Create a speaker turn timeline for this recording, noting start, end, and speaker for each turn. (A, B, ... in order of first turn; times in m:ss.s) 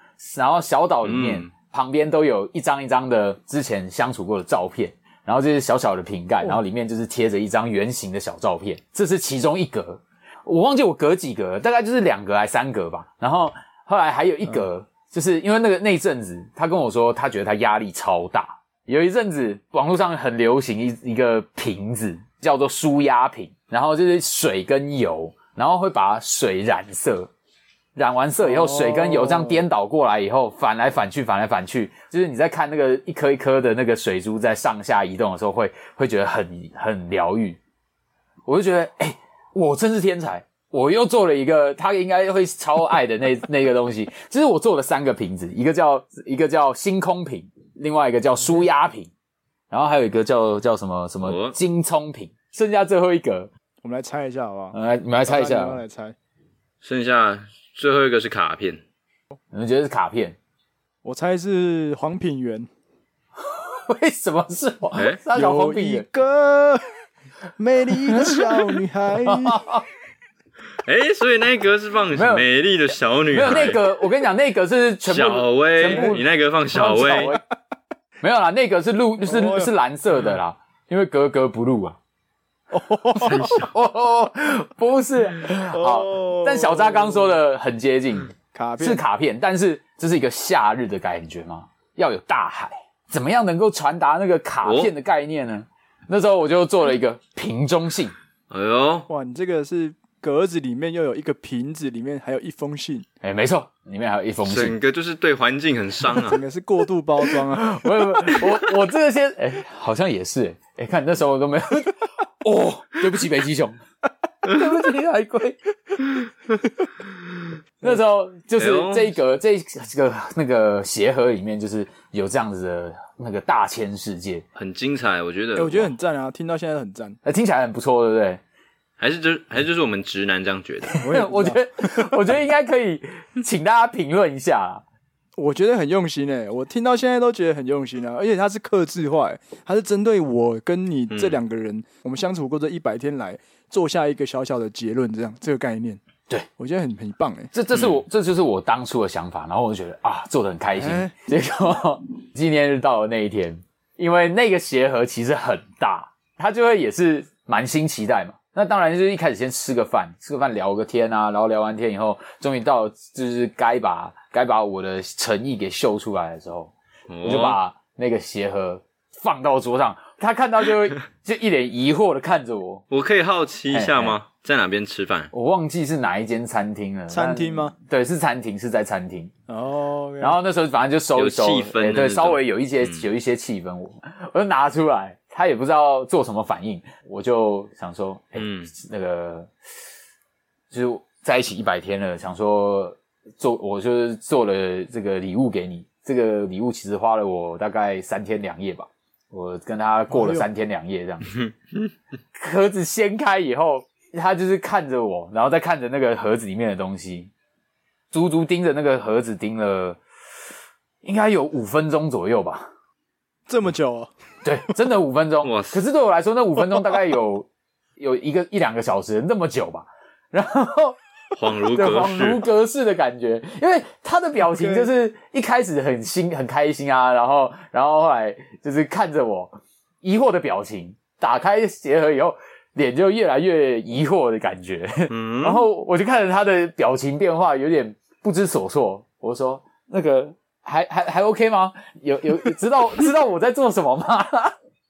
0:00.2-0:27.3 A
0:01.0-0:01.5 B
0:28.0-0:37.6 A
0:28.4-0:29.6 C
0:38.4-0:49.1 A
0:49.7-0:53.5 A
0:51.2-0:51.6 B
0:53.8-0:56.1 C
0:54.7-0:55.8 A
0:56.8-0:58.8 B
0:59.5-1:00.4 A
1:01.0-1:02.7 C
1:03.4-1:06.0 A
1:05.0-1:05.2 B
1:05.3-1:06.9 C
1:07.6-1:09.6 C
1:08.0-1:09.8 A
1:10.8-1:13.8 B
1:12.1-1:12.5 A
1:13.3-1:17.4 A
1:15.0-1:17.4 B
1:15.8-1:16.2 C
1:18.2-1:22.0 A
1:19.2-1:19.7 C
1:22.7-1:23.5 C
1:23.2-1:38.1 A
1:23.2-1:23.7 B
1:25.7-1:27.3 C
1:28.5-1:29.0 C
1:34.6-1:34.9 B
1:38.5-1:39.1 B
1:39.1-1:43.0 C
1:43.2-1:44.8 A
1:44.4-1:46.4 B
1:46.2-1:47.7 C
1:47.5-1:53.8 A
1:54.4-1:55.6 A
1:57.8-2:04.4 A
1:58.6-1:59.1 B
2:04.5-2:05.9 B
2:05.6-2:07.2 C
2:07.2-2:08.4 A
2:09.0-2:11.0 B
2:11.0-2:14.8 A
2:11.0-2:12.1 C
2:15.4-2:26.0 C
2:21.1-2:21.4 B
2:26.6-2:27.5 C
2:27.5-2:52.8 A
2:27.7-2:28.0 B
2:30.8-2:31.1 C
2:47.1-2:47.6 B
2:52.9-2:55.3 B
2:53.7-2:54.2 A
2:55.3-2:59.3 A
2:57.1-2:57.7 C
2:59.5-3:00.4 C
3:00.2-3:09.5 A
3:01.2-3:03.1 B
3:08.4-3:08.7 B
3:10.7-3:21.3 A
3:20.1-3:20.5 C
3:22.4-3:27.3 A
3:28.1-3:30.0 A
3:31.0-3:32.7 A
3:33.5-3:34.1 C
3:34.4-3:41.0 A
3:35.4-3:35.8 B
3:41.3-3:42.4 B
3:41.7-4:04.5 A
3:44.4-3:44.9 C
3:55.1-3:55.6 B